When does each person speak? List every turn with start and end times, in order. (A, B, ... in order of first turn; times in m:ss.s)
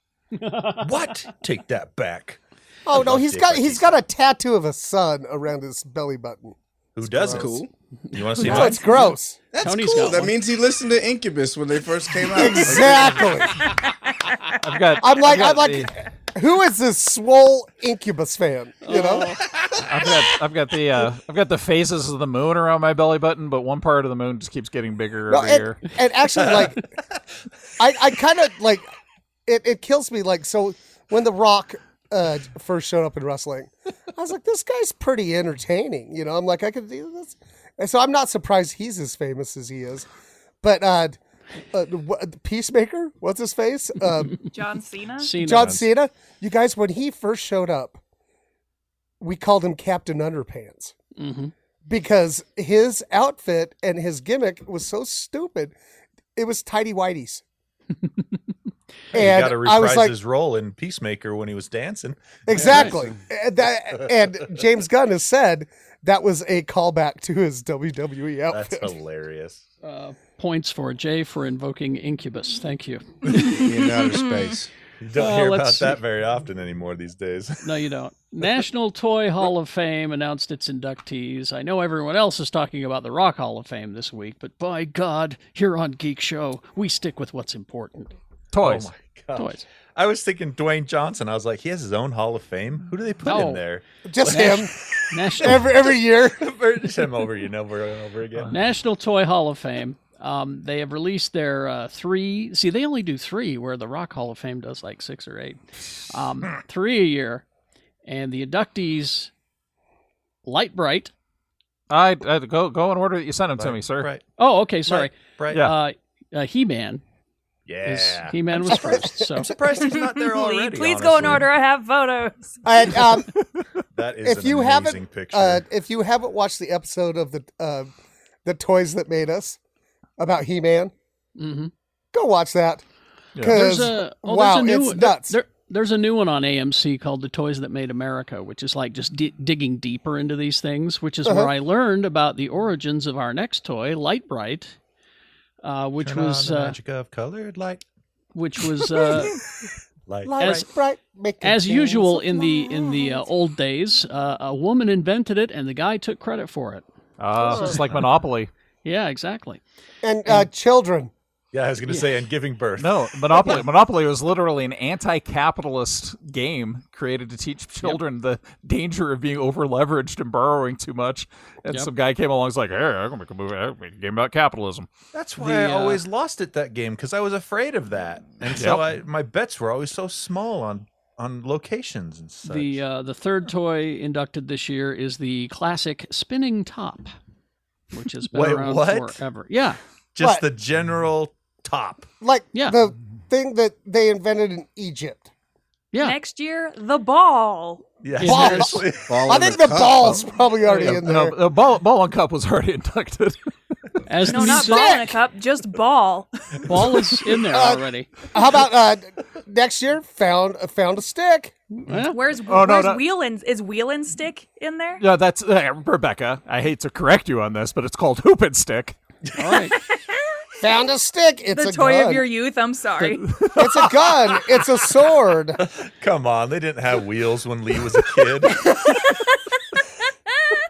0:00.3-0:01.3 A
0:00.8-0:04.0 B
0:02.8-0:07.5 C
0:07.0-0:10.2 B
0:07.3-0:07.7 D
0:08.1-0:08.9 A
0:08.4-0:09.4 C
0:09.6-0:10.3 A
0:09.6-0:13.3 D
0:12.3-0:13.7 C
0:14.6-0:15.9 E
0:15.0-0:19.4 C
0:18.8-0:19.5 A
0:19.7-0:25.8 E
0:25.3-0:26.9 C
0:27.8-0:28.8 C
0:29.5-0:40.1 C
0:40.6-0:41.2 C
0:41.7-0:44.4 C
0:44.5-0:45.3 F
0:45.2-0:45.8 A
0:45.4-0:48.0 C
0:45.6-0:45.8 B
0:49.2-0:50.9 C
0:51.2-0:51.5 A
0:51.9-0:55.7 C
0:56.4-0:57.4 C
0:59.1-1:03.0 B
0:59.1-1:00.1 C
1:02.5-1:08.9 C
1:02.5-1:03.0 A
1:08.5-1:09.6 B
1:09.8-1:13.6 A
1:13.5-1:14.7 D
1:15.0-1:17.6 B
1:15.1-1:16.0 A
1:17.6-1:28.2 A
1:28.5-1:28.9 E
1:28.6-1:38.5 B
1:29.4-1:29.6 A
1:33.2-1:33.6 A
1:34.0-1:34.7 C
1:34.3-1:35.7 A
1:35.4-1:36.4 C
1:38.5-1:47.4 A
1:48.0-1:49.3 A
1:50.4-1:51.1 A
1:51.9-1:54.1 E
1:53.6-1:54.2 B
1:54.4-1:57.0 A
1:54.8-1:55.7 B
1:57.7-2:01.5 B
1:57.8-1:59.5 A
1:58.7-1:59.5 C
1:59.8-2:02.6 F
2:02.6-2:03.3 C
2:03.9-2:05.6 B
2:04.2-2:07.9 C
2:08.4-2:09.6 C
2:10.2-2:10.9 C
2:11.4-2:11.7 A
2:12.1-2:12.8 C
2:13.4-2:13.6 E
2:13.4-2:15.4 C
2:13.4-2:24.8 A
2:21.2-2:21.5 C
2:25.6-2:26.8 A
2:26.0-2:27.8 B
2:28.3-2:29.4 A
2:30.1-2:30.7 B
2:30.2-2:33.2 C
2:30.4-2:30.6 A
2:31.4-2:36.8 A
2:37.2-2:38.5 E
2:37.4-2:37.8 A
2:38.8-2:39.6 A
2:40.0-2:41.1 C
2:41.5-2:43.6 B
2:42.8-2:54.9 E
2:55.1-3:02.8 B
2:55.4-2:56.0 A
2:58.5-2:58.8 E
3:02.4-3:07.1 A
3:07.9-3:09.8 A
3:08.3-3:09.2 B
3:10.1-3:12.1 B
3:10.2-3:10.4 C
3:12.2-3:15.3 C
3:12.5-3:12.8 A
3:16.0-3:17.8 F
3:18.0-3:19.4 B
3:18.2-3:18.9 A
3:18.2-3:21.4 C
3:19.0-3:20.2 D
3:20.0-3:23.5 E
3:24.0-3:25.1 A
3:24.2-3:26.9 F
3:24.3-3:25.1 C
3:26.6-3:28.1 A
3:27.4-3:31.5 C
3:31.7-3:32.2 A
3:32.0-3:35.0 F
3:32.5-3:33.0 E
3:35.0-3:39.0 E
3:39.3-3:39.8 A
3:39.8-3:40.2 F
3:40.6-3:42.3 C
3:41.5-3:43.8 F
3:43.6-3:45.6 C
3:45.6-3:48.8 B
3:48.6-3:49.3 F